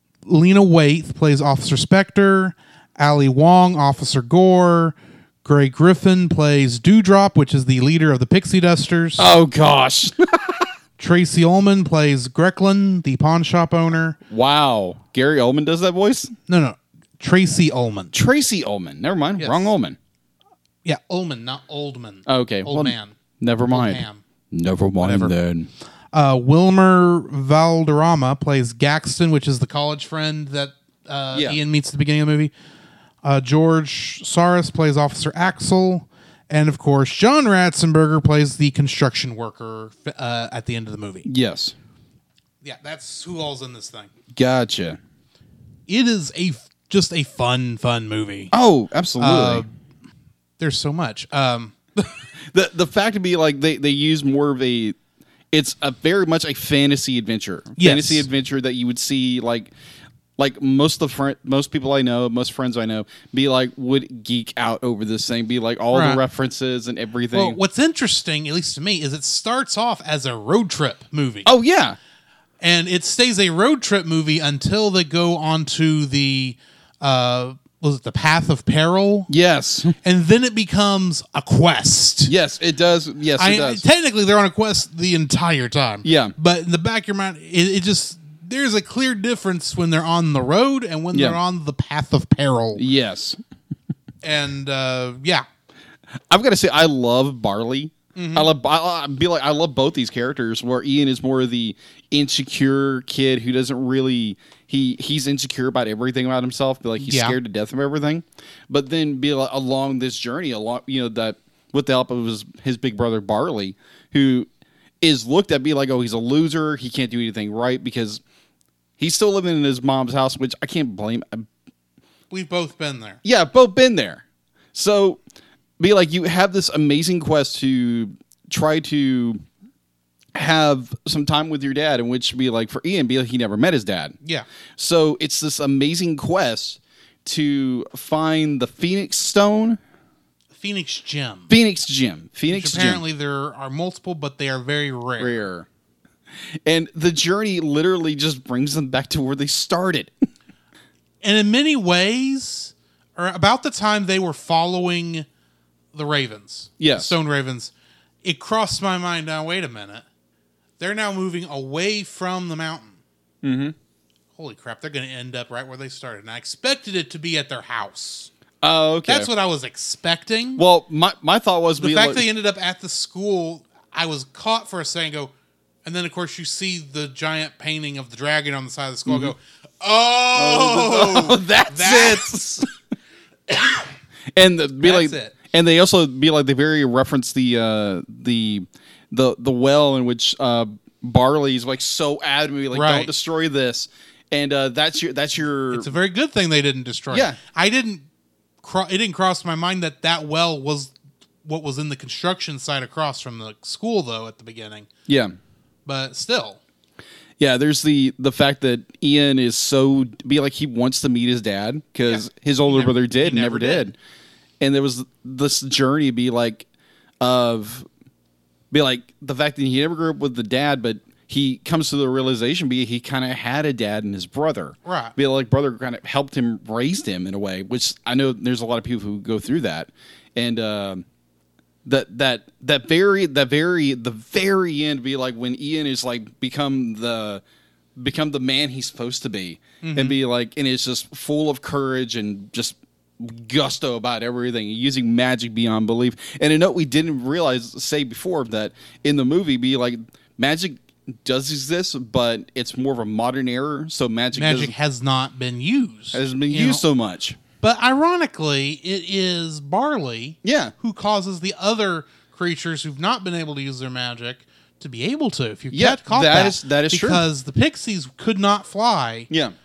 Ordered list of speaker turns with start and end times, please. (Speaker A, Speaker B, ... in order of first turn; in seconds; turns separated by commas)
Speaker A: 0.3-9.3, Speaker B: 9.2-10.7, Speaker A: 11.0-14.2, Speaker B: 14.3-16.4, Speaker A: 16.5-18.1, Speaker B: 18.1-20.0, Speaker A: 19.4-19.7, Speaker A: 20.9-23.2, Speaker B: 22.3-25.7, Speaker A: 23.7-24.2, Speaker A: 25.0-25.3, Speaker A: 26.1-32.5, Speaker B: 31.3-31.6, Speaker A: 33.2-41.3, Speaker B: 41.2-41.8, Speaker A: 42.6-44.1, Speaker B: 44.4-45.0, Speaker A: 45.9-48.5, Speaker B: 48.5-49.6, Speaker A: 49.2-49.7, Speaker A: 50.6-52.2, Speaker B: 52.5-55.0, Speaker B: 55.5-59.7, Speaker A: 57.8-58.3, Speaker B: 60.4-67.6, Speaker A: 65.9-66.2, Speaker A: 67.3-71.5, Speaker B: 71.5-72.0, Speaker A: 72.6-79.3, Speaker B: 79.3-80.0, Speaker A: 80.0-82.3, Speaker B: 82.3-83.8, Speaker A: 83.4-92.8, Speaker B: 86.0-86.3, Speaker B: 91.1-91.4, Speaker B: 92.8-93.4, Speaker A: 94.2-95.5, Speaker B: 96.3-114.5, Speaker A: 98.2-98.5, Speaker A: 107.0-107.4, Speaker B: 115.0-118.2, Speaker B: 119.0-121.5, Speaker A: 122.3-123.2, Speaker B: 123.2-125.2, Speaker B: 125.8-129.4, Speaker B: 130.3-134.2, Speaker B: 134.8-139.8, Speaker A: 140.6-141.5, Speaker B: 141.5-143.0, Speaker A: 142.5-145.4, Speaker B: 145.2-145.7, Speaker B: 146.7-150.1, Speaker A: 151.2-155.3, Speaker A: 155.9-157.7, Speaker B: 156.8-157.1, Speaker A: 158.2-160.0, Speaker A: 160.8-163.0, Speaker B: 163.4-163.8, Speaker A: 164.4-168.3, Speaker B: 168.6-169.3, Speaker A: 169.1-170.6, Speaker B: 170.6-172.2, Speaker A: 171.8-175.3, Speaker A: 175.8-182.3, Speaker B: 179.1-179.3, Speaker B: 180.3-182.7, Speaker A: 183.5-183.8, Speaker B: 184.3-195.9, Speaker A: 184.8-185.3, Speaker A: 192.7-193.1, Speaker A: 195.7-198.1, Speaker B: 197.1-197.4, Speaker A: 198.6-200.9, Speaker A: 201.4-204.9, Speaker B: 205.1-205.3, Speaker A: 205.9-206.6, Speaker B: 207.4-213.9, Speaker A: 212.1-213.9, Speaker B: 214.6-216.7, Speaker B: 217.2-217.9, Speaker B: 218.7-231.1, Speaker A: 224.8-225.2, Speaker B: 231.8-237.4, Speaker B: 238.0-254.8, Speaker A: 239.8-240.2, Speaker A: 254.3-256.8, Speaker B: 256.1-257.4, Speaker A: 257.6-269.3, Speaker B: 260.4-260.7, Speaker B: 265.7-267.2